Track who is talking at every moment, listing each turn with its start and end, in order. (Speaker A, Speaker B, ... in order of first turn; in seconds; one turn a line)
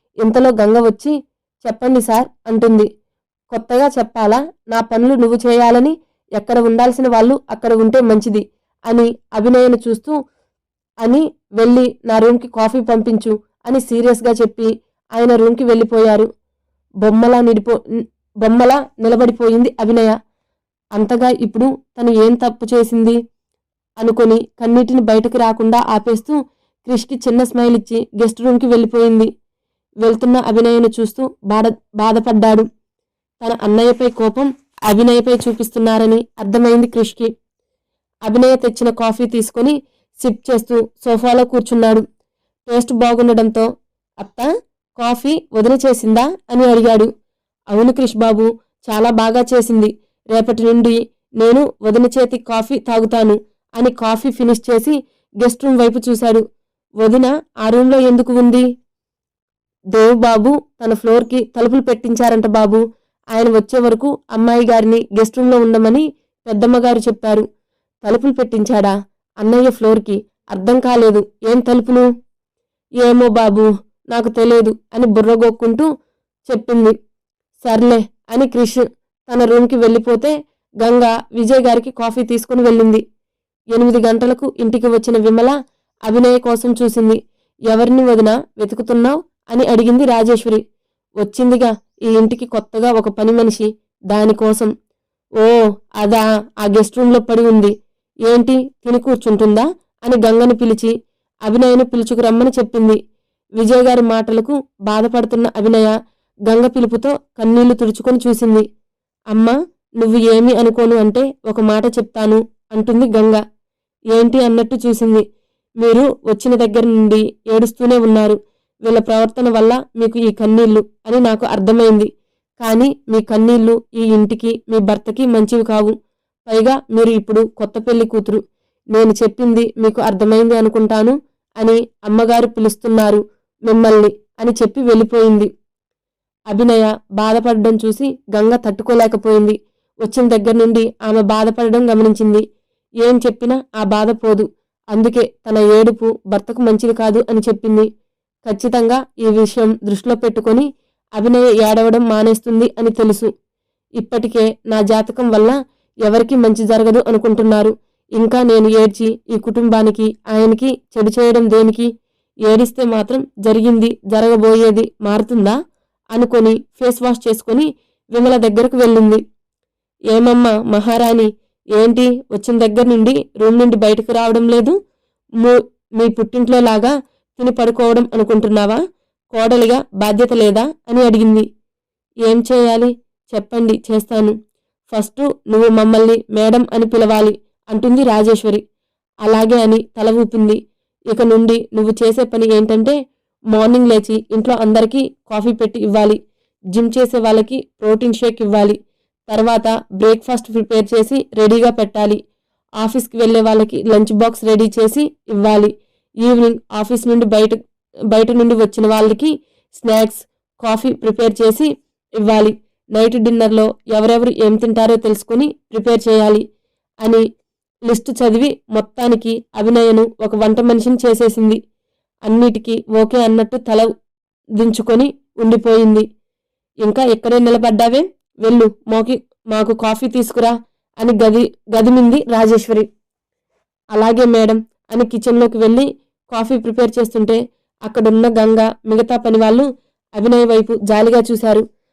Speaker A: 0.2-2.9
Speaker A: 3.5-10.1
Speaker A: 11.0-16.3
Speaker A: 17.0-17.8
Speaker A: 18.4-20.1
Speaker A: 20.9-23.2
Speaker A: 24.0-29.3
Speaker A: 30.0-32.6
Speaker A: 33.4-37.3
Speaker A: 38.3-42.0
Speaker A: 42.7-43.6
Speaker A: 44.2-47.1
Speaker A: 47.7-56.4
Speaker A: 57.0-58.6
Speaker A: 59.9-62.8
Speaker A: 63.3-67.4
Speaker A: 68.0-72.0
Speaker A: 73.0-75.9
Speaker A: 76.5-76.9
Speaker A: 77.6-83.0
Speaker A: 83.7-85.5
Speaker A: 86.1-87.2
Speaker A: 87.7-90.6
Speaker A: 91.2-94.7
Speaker A: 95.4-97.7
Speaker A: 98.2-100.9
Speaker A: 101.5-103.0
Speaker A: 103.6-105.9
Speaker A: 106.5-108.6
Speaker A: 109.3-113.4
Speaker A: 114.1-115.2
Speaker A: 115.8-122.1
Speaker A: 122.6-125.9
Speaker A: 126.5-128.4
Speaker A: 128.9-135.5
Speaker A: 136.5-142.4
Speaker A: 143.0-147.9
Speaker A: 148.4-150.7
Speaker A: 151.2-153.3
Speaker A: 154.0-161.9
Speaker A: 162.4-165.6
Speaker A: 166.1-169.2
Speaker A: 170.1-174.7
Speaker A: 175.4-178.8
Speaker A: 179.3-181.4
Speaker A: 182.2-184.3
Speaker A: 184.9-188.6
Speaker A: 189.2-190.6
Speaker A: 191.1-192.9
Speaker A: 193.5-196.2
Speaker A: 196.7-202.2
Speaker A: 202.8-207.6
Speaker A: 208.1-211.7
Speaker A: 212.2-216.4
Speaker A: 217.9-221.6
Speaker A: 222.3-223.9
Speaker A: 224.6-226.0
Speaker A: 226.8-232.8
Speaker A: 233.9-239.6
Speaker A: 240.2-241.6